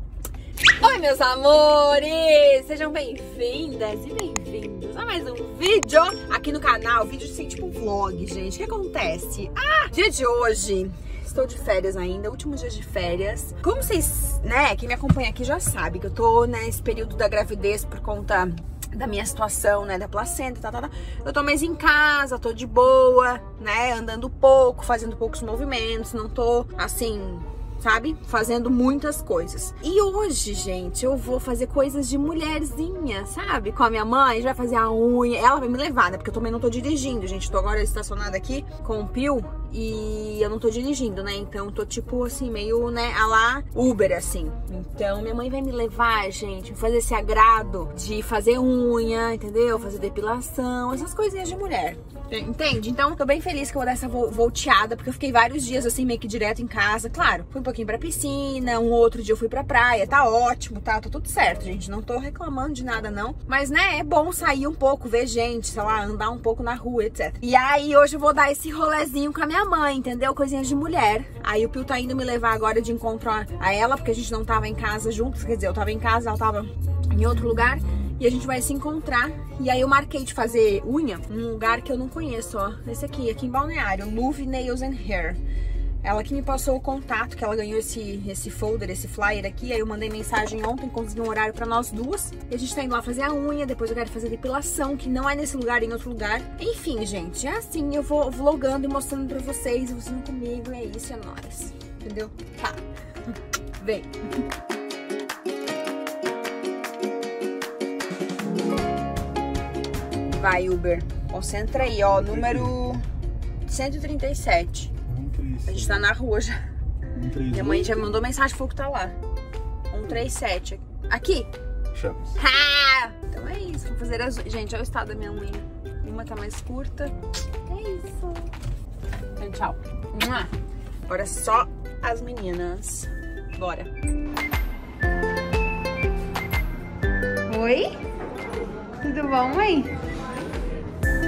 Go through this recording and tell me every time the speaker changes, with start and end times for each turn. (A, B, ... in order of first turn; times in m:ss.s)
0:00.8-1:25.4 A
1:26.0-1:42.8 A
1:43.8-1:44.1 A
1:50.3-1:53.0 A
1:52.3-1:52.8 B
1:53.7-1:54.9 A
1:55.1-1:56.1 B
1:55.7-1:56.6 A
1:57.2-1:58.0 B
1:57.4-1:59.2 A
1:59.9-2:01.5 A
2:01.9-2:02.4 B
2:02.4-2:07.1 A
2:07.7-2:08.5 A
2:09.4-2:10.5 A
2:11.1-2:13.9 A
2:17.5-2:17.9 A
2:19.0-2:19.9 A